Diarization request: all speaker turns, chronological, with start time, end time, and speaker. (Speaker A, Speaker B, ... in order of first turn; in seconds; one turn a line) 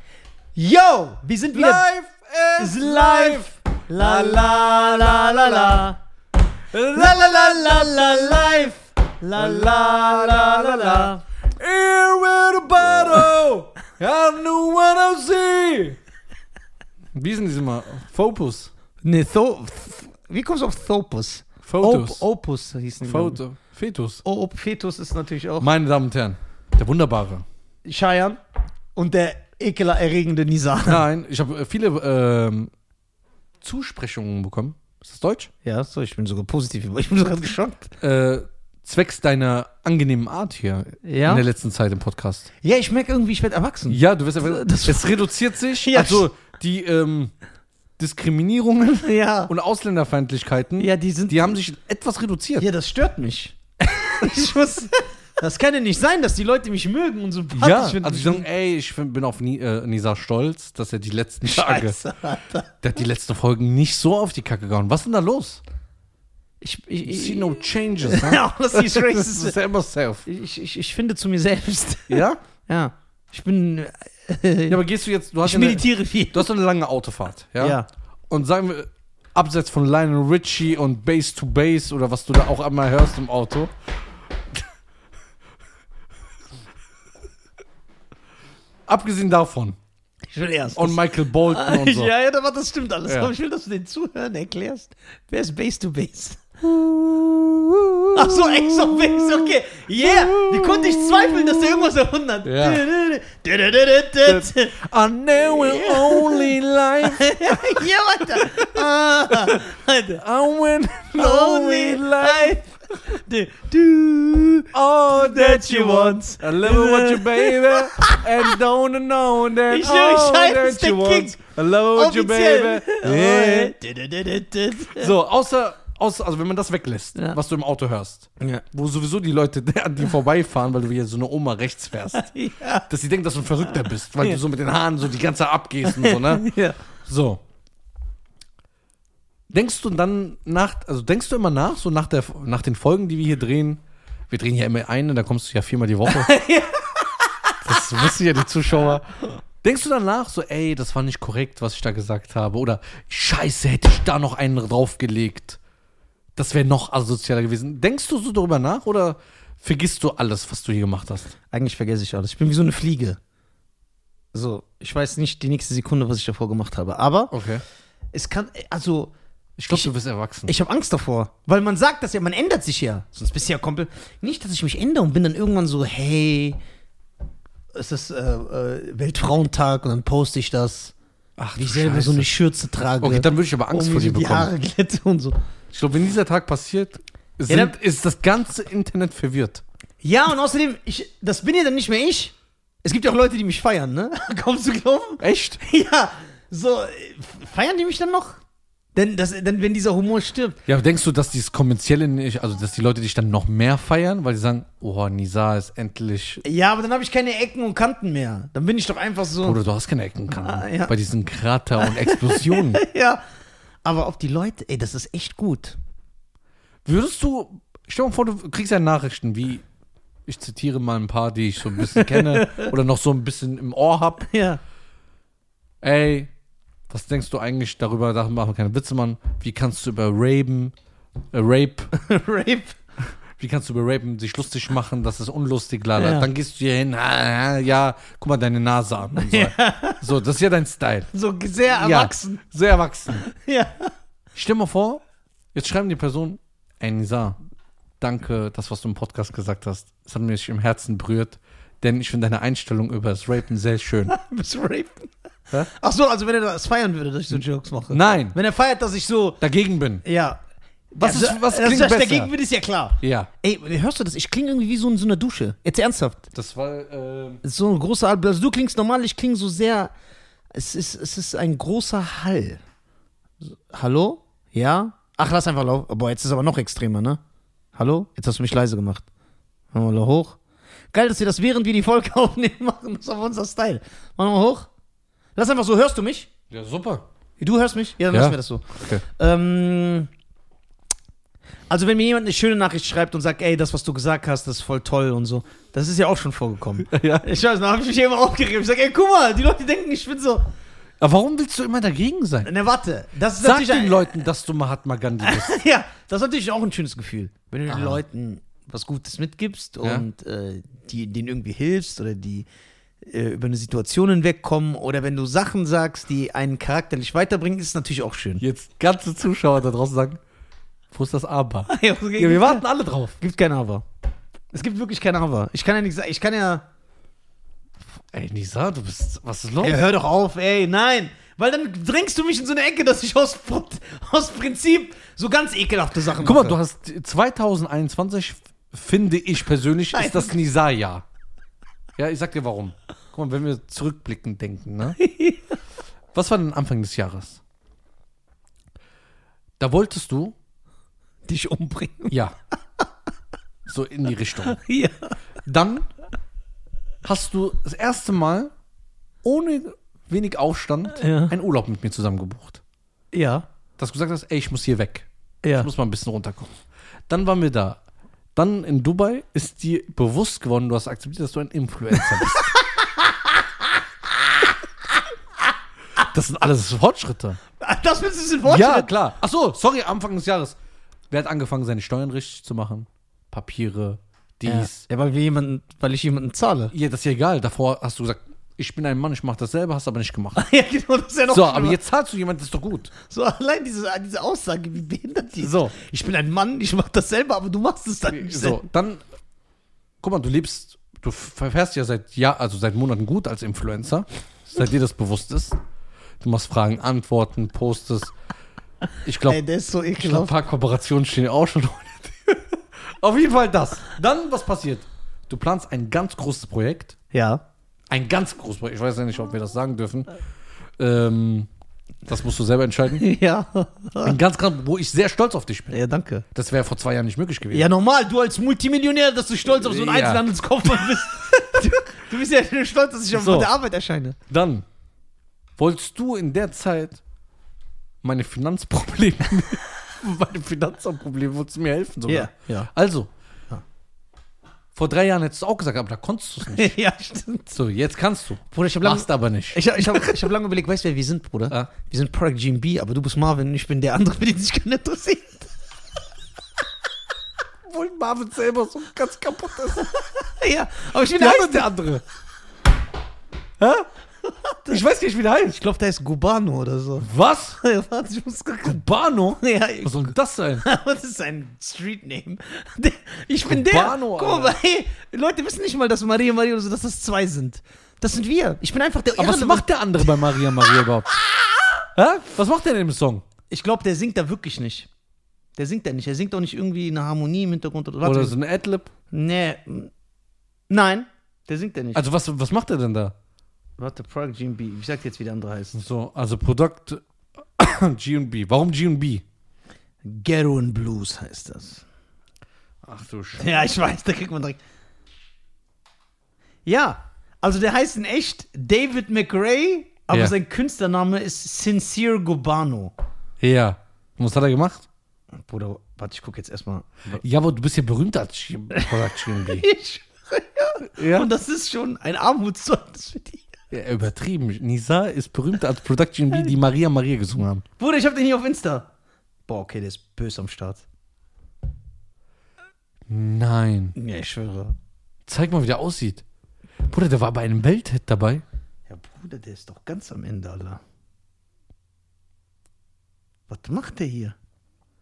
Speaker A: 0.6-1.9
Speaker B: 1.5-5.8
Speaker A: 2.6-6.0
Speaker B: 6.7-8.7
Speaker A: 6.9-11.2
Speaker B: 9.3-16.0
Speaker B: 17.1-18.7
Speaker A: 19.0-23.4
Speaker B: 21.6-22.2
Speaker B: 23.0-24.2
Speaker A: 24.2-25.7
Speaker B: 25.6-27.4
Speaker A: 27.8-28.4
Speaker A: 28.9-31.1
Speaker B: 30.9-32.7
Speaker B: 33.6-35.5
Speaker A: 35.6-38.0
Speaker B: 38.0-42.5
Speaker A: 41.0-41.4
Speaker A: 42.6-45.2
Speaker B: 43.9-47.3
Speaker A: 45.7-46.3
Speaker B: 48.0-52.7
Speaker A: 49.0-49.5
Speaker A: 50.8-51.5
Speaker A: 52.6-58.5
Speaker B: 57.5-62.0
Speaker A: 61.4-62.7
Speaker B: 62.8-65.6
Speaker A: 66.6-69.6
Speaker B: 67.0-70.2
Speaker A: 70.2-74.8
Speaker B: 72.1-72.4
Speaker B: 74.7-83.7
Speaker A: 75.4-76.5
Speaker A: 77.6-77.9
Speaker B: 88.9-89.8
Speaker A: 90.3-96.5
Speaker B: 90.8-92.1
Speaker B: 93.1-93.3
Speaker B: 96.6-101.9
Speaker A: 98.1-104.8
Speaker B: 102.4-102.8
Speaker B: 104.2-112.6
Speaker A: 105.4-110.2
Speaker A: 111.2-118.5
Speaker B: 114.7-123.7
Speaker A: 119.7-121.4
Speaker A: 121.9-125.1
Speaker B: 124.9-132.3
Speaker A: 132.1-132.9
Speaker B: 132.9-136.5
Speaker A: 135.8-136.8
Speaker B: 137.0-137.4
Speaker B: 139.5-146.3
Speaker A: 146.1-147.6
Speaker B: 147.6-155.6
Speaker B: 156.4-161.3
Speaker A: 161.5-163.2
Speaker A: 164.3-167.3
Speaker B: 167.3-167.6
Speaker A: 168.1-169.1
Speaker B: 169.6-170.5
Speaker A: 170.5-176.6
Speaker A: 177.8-180.9
Speaker B: 181.4-182.3
Speaker A: 181.6-185.4
Speaker B: 183.0-184.5
Speaker B: 185.7-189.6
Speaker A: 187.5-187.7
Speaker A: 190.0-198.4
Speaker B: 195.2-195.6
Speaker A: 198.9-200.6
Speaker B: 200.7-206.4
Speaker A: 206.4-209.6
Speaker B: 209.4-212.8
Speaker A: 210.3-210.9
Speaker A: 211.8-213.2
Speaker A: 213.8-215.8
Speaker B: 216.8-219.7
Speaker B: 220.3-224.3
Speaker A: 221.8-222.7
Speaker A: 224.2-224.6
Speaker B: 225.8-226.3
Speaker B: 226.9-230.7
Speaker B: 231.3-231.9
Speaker A: 231.9-232.8
Speaker B: 233.4-241.1
Speaker A: 236.0-236.3
Speaker A: 239.2-240.0
Speaker A: 241.1-242.4
Speaker B: 241.7-243.2
Speaker A: 243.1-243.9
Speaker B: 244.3-245.0
Speaker B: 245.5-247.4
Speaker B: 248.0-254.1
Speaker A: 254.1-259.4
Speaker B: 257.3-258.4
Speaker B: 259.4-260.0
Speaker A: 260.0-260.4
Speaker A: 260.9-266.2
Speaker B: 261.0-262.3
Speaker B: 263.0-263.3
Speaker B: 266.3-267.4
Speaker A: 267.4-269.9
Speaker A: 270.5-272.6
Speaker A: 273.4-277.2
Speaker A: 277.8-279.1
Speaker A: 279.7-280.4
Speaker A: 280.9-284.7
Speaker A: 285.4-286.3
Speaker B: 286.5-287.1
Speaker A: 287.4-290.1
Speaker B: 288.1-289.0
Speaker A: 291.7-300.5
Speaker B: 296.9-297.2
Speaker B: 301.0-302.5
Speaker A: 302.4-304.2
Speaker B: 303.4-305.6
Speaker A: 305.2-312.4
Speaker B: 307.7-308.0
Speaker A: 313.0-318.4
Speaker B: 318.4-320.2
Speaker B: 320.9-323.2
Speaker A: 321.7-322.6
Speaker A: 323.2-323.8
Speaker A: 324.5-326.6
Speaker B: 328.1-329.8
Speaker A: 329.6-336.6
Speaker B: 336.1-341.1
Speaker A: 339.9-340.3
Speaker B: 341.9-345.0
Speaker A: 345.0-345.5
Speaker B: 346.1-347.4
Speaker B: 349.6-350.4
Speaker A: 351.3-352.2
Speaker B: 353.7-354.6
Speaker A: 354.4-355.1
Speaker B: 355.4-355.9
Speaker B: 357.0-358.5
Speaker B: 359.2-362.6
Speaker A: 360.9-361.4
Speaker A: 363.1-363.4
Speaker B: 363.8-366.5
Speaker A: 365.4-365.7
Speaker B: 367.1-367.8
Speaker B: 368.4-372.5
Speaker A: 372.0-373.3
Speaker B: 376.0-377.4
Speaker A: 377.6-378.9
Speaker B: 378.4-380.6
Speaker B: 381.1-384.8
Speaker A: 384.4-386.7
Speaker B: 386.7-390.4
Speaker A: 390.4-391.8
Speaker B: 391.3-392.9
Speaker A: 393.1-398.6
Speaker B: 395.4-395.7
Speaker B: 398.1-399.0
Speaker B: 400.0-405.6
Speaker B: 406.2-408.1
Speaker B: 409.1-409.4
Speaker A: 409.2-410.4
Speaker B: 410.0-416.9
Speaker A: 417.1-417.4
Speaker B: 417.9-420.1
Speaker B: 420.8-421.5
Speaker B: 422.1-423.1
Speaker A: 423.0-424.2
Speaker B: 424.0-425.8
Speaker A: 425.7-426.2
Speaker B: 426.3-427.7
Speaker A: 427.5-434.2
Speaker B: 429.5-431.8
Speaker B: 433.1-433.5
Speaker B: 434.3-434.6
Speaker B: 435.6-437.0
Speaker B: 438.0-443.1
Speaker A: 442.1-442.7
Speaker B: 444.8-446.7
Speaker A: 446.4-447.6
Speaker B: 447.5-450.2
Speaker A: 448.5-455.5
Speaker B: 457.7-459.9
Speaker A: 459.9-461.8
Speaker B: 461.1-462.0
Speaker B: 463.6-463.9
Speaker A: 464.2-464.9
Speaker B: 464.7-465.6
Speaker A: 465.6-467.1
Speaker B: 467.0-467.6
Speaker A: 467.6-468.8
Speaker B: 468.6-470.6
Speaker A: 469.4-481.9
Speaker B: 473.4-474.6
Speaker B: 479.2-481.1
Speaker B: 481.9-483.2
Speaker A: 483.5-484.9
Speaker A: 485.6-488.3
Speaker B: 488.0-488.9
Speaker A: 489.1-489.9
Speaker A: 490.7-492.0
Speaker B: 491.9-493.1
Speaker A: 493.8-495.8
Speaker B: 495.8-497.0
Speaker B: 497.6-499.2
Speaker A: 500.0-501.9
Speaker B: 502.8-503.5
Speaker A: 503.4-504.6
Speaker A: 506.7-512.9
Speaker B: 513.4-514.9
Speaker A: 515.5-517.2
Speaker B: 517.1-519.6
Speaker A: 518.7-523.5
Speaker B: 521.0-521.3
Speaker B: 523.7-527.6
Speaker A: 527.8-528.9
Speaker A: 529.5-530.8
Speaker B: 533.1-534.0
Speaker A: 534.0-534.7
Speaker B: 535.2-536.2
Speaker B: 536.9-538.4
Speaker A: 538.9-540.8
Speaker A: 543.5-544.4